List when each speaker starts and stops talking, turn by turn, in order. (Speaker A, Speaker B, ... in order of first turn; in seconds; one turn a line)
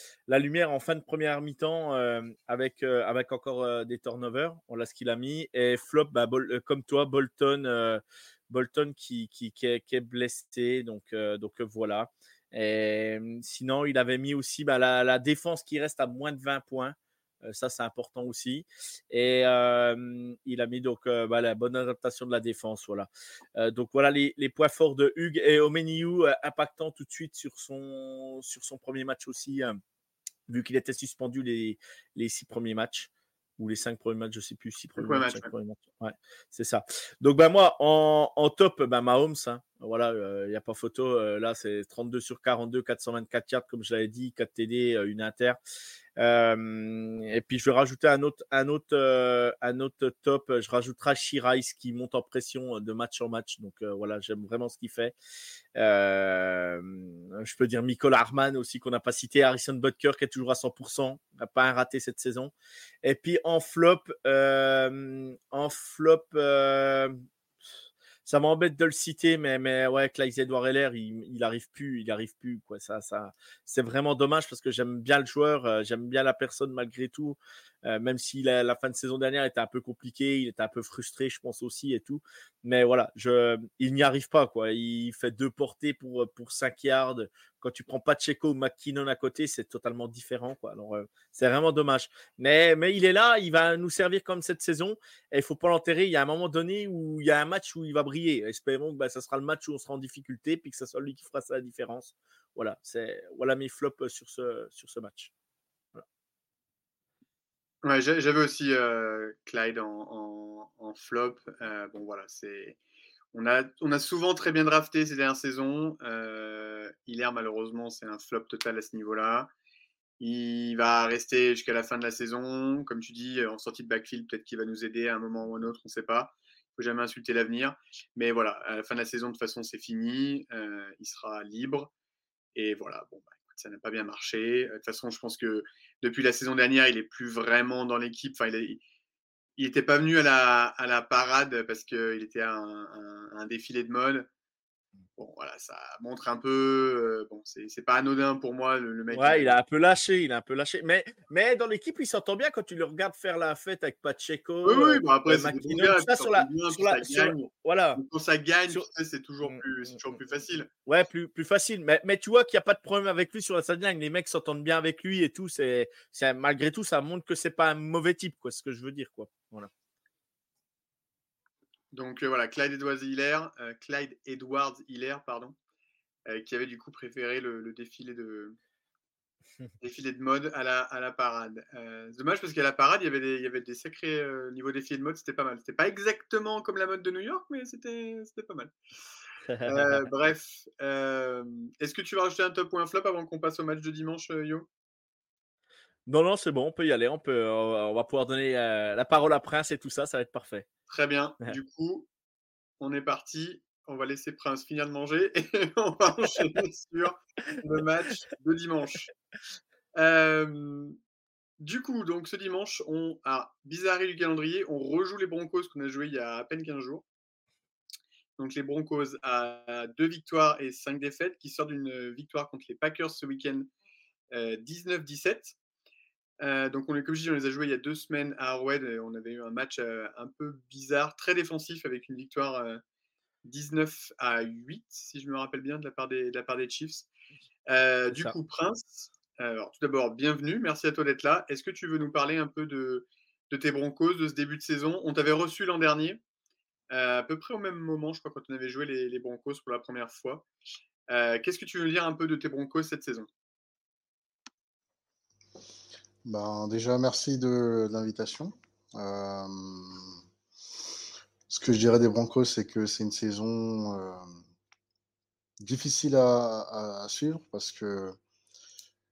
Speaker A: 0.3-29.8
Speaker A: 30.5-45.6
Speaker B: 35.0-35.5
Speaker A: 46.2-55.1
Speaker A: 55.8-67.2
Speaker A: 68.2-105.3
Speaker B: 107.8-112.8
Speaker B: 113.3-119.5
Speaker B: 120.2-131.9
Speaker B: 132.5-138.8
Speaker B: 139.6-144.3
Speaker B: 145.2-149.6
Speaker A: 149.1-158.0
Speaker B: 154.6-160.7
Speaker A: 159.4-160.1
Speaker A: 160.8-169.7
Speaker B: 171.9-175.6
Speaker B: 176.3-178.6
Speaker B: 179.8-188.7
Speaker A: 189.5-190.1
Speaker B: 189.7-194.7
Speaker A: 196.1-200.7
Speaker B: 200.9-202.1
Speaker B: 202.8-209.1
Speaker B: 209.9-210.9
Speaker B: 211.6-217.0
Speaker B: 218.4-223.7
Speaker B: 224.3-225.5
Speaker B: 226.4-232.8
Speaker B: 233.4-237.1
Speaker B: 237.7-246.2
Speaker B: 246.9-250.4
Speaker B: 251.1-253.3
Speaker C: 256.2-260.1
Speaker C: 261.5-264.2
Speaker C: 265.6-268.2